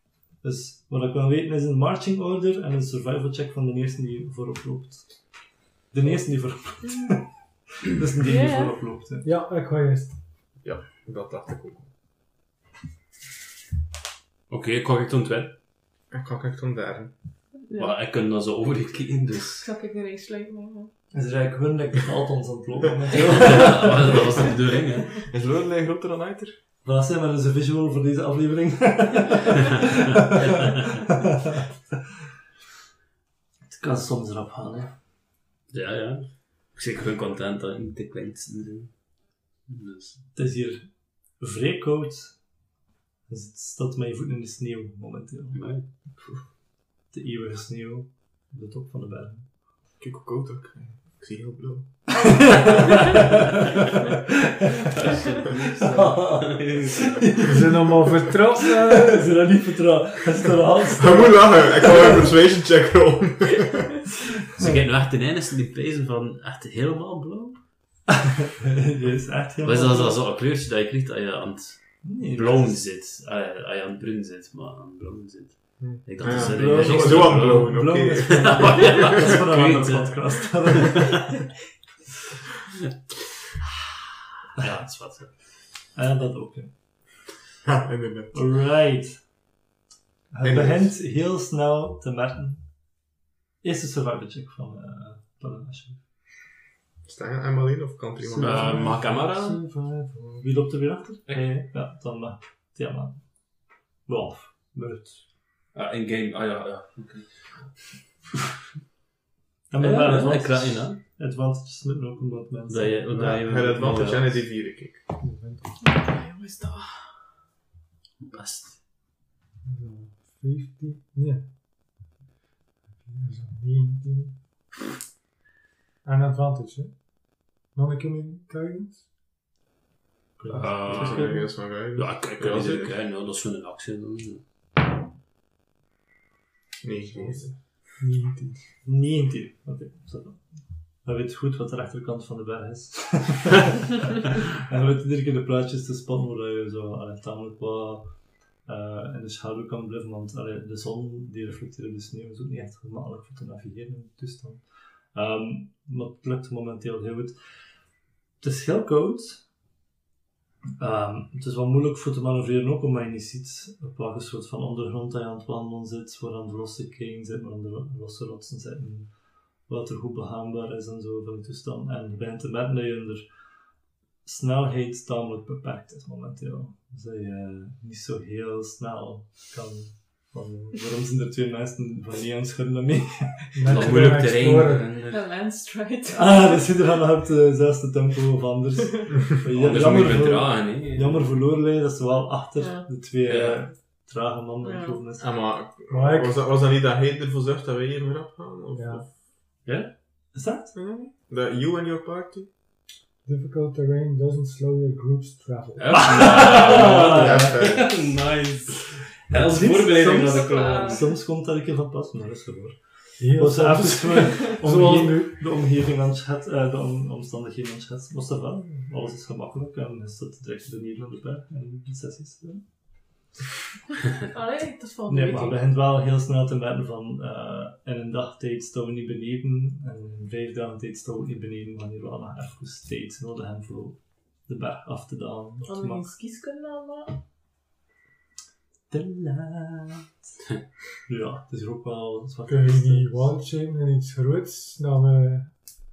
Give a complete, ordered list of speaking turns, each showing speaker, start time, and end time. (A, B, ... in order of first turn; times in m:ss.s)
0:00.4-0:09.3 A
0:08.2-0:08.7 B
0:09.2-0:10.2 C
0:10.6-0:11.9 D
0:14.5-0:15.5 E
0:16.1-0:17.1 D
0:17.7-0:18.0 B
0:17.8-0:19.7 E
0:19.6-0:20.9 B
0:21.1-0:24.1 A
0:23.1-0:25.1 E
0:25.3-0:26.6 D
0:26.8-0:29.9 A
0:30.2-0:31.3 E
0:30.7-0:31.6 A
0:33.7-0:35.0 A
0:35.7-0:40.3 E
0:40.3-0:42.4 A
0:43.3-0:45.6 A
0:45.5-0:45.8 E
0:47.1-0:49.5 A
0:50.0-0:52.5 D
0:52.3-0:53.5 A
0:54.9-0:57.2 E
0:55.6-1:02.2 A
0:57.4-0:59.3 C
1:01.0-1:03.9 D
1:04.6-1:07.7 E
1:08.6-1:10.2 A
1:09.6-1:20.8 E
1:12.0-1:12.8 A
1:15.8-1:19.2 D
1:16.2-1:21.3 A
1:24.6-1:25.6 E
1:25.9-1:26.7 A
1:27.6-1:28.4 D
1:28.3-1:29.3 A
1:30.3-1:32.9 A
1:30.4-1:31.0 D
1:33.6-1:36.0 A
1:37.0-1:38.9 D
1:38.4-1:39.6 E
1:38.4-1:45.2 A
1:39.6-1:40.4 C
1:45.7-1:47.8 E
1:49.7-1:53.0 A
1:49.8-1:51.0 E
1:52.7-1:54.4 E
1:53.1-1:55.0 D
1:55.2-1:55.7 C
1:55.8-1:57.2 B
1:58.2-1:58.8 E
1:59.6-2:01.5 C
2:03.0-2:04.4 C
2:06.0-2:07.1 C
2:07.7-2:09.1 C
2:10.4-2:11.4 A
2:10.5-2:14.4 E
2:10.6-2:13.0 D
2:16.8-2:17.6 D
2:17.9-2:18.6 C
2:18.8-2:23.9 A
2:24.6-2:37.8 A
2:38.4-2:39.5 A
2:40.8-2:53.6 A
2:54.2-3:03.8 A
3:03.5-3:05.0 C
3:03.6-3:05.2 E
3:05.0-3:06.8 B
3:06.1-3:15.3 A
3:09.5-3:11.3 E
3:12.6-3:12.9 B
3:13.2-3:13.7 E
3:14.6-3:15.0 B
3:15.2-3:19.2 D
3:15.9-3:16.4 C
3:18.7-3:19.0 C
3:19.6-3:19.9 E
3:20.3-3:20.7 A
3:20.7-3:22.5 D
3:23.2-3:26.4 C
3:25.8-3:31.0 E
3:25.9-3:27.6 A
3:26.9-3:28.0 D
3:29.3-3:42.8 A
3:30.2-3:31.1 B
3:33.2-3:35.4 C
3:44.3-3:45.6 B
3:45.1-3:56.1 A
3:55.6-3:57.2 B
3:58.9-4:00.0 A
4:01.1-4:03.3 A
4:02.5-4:05.5 C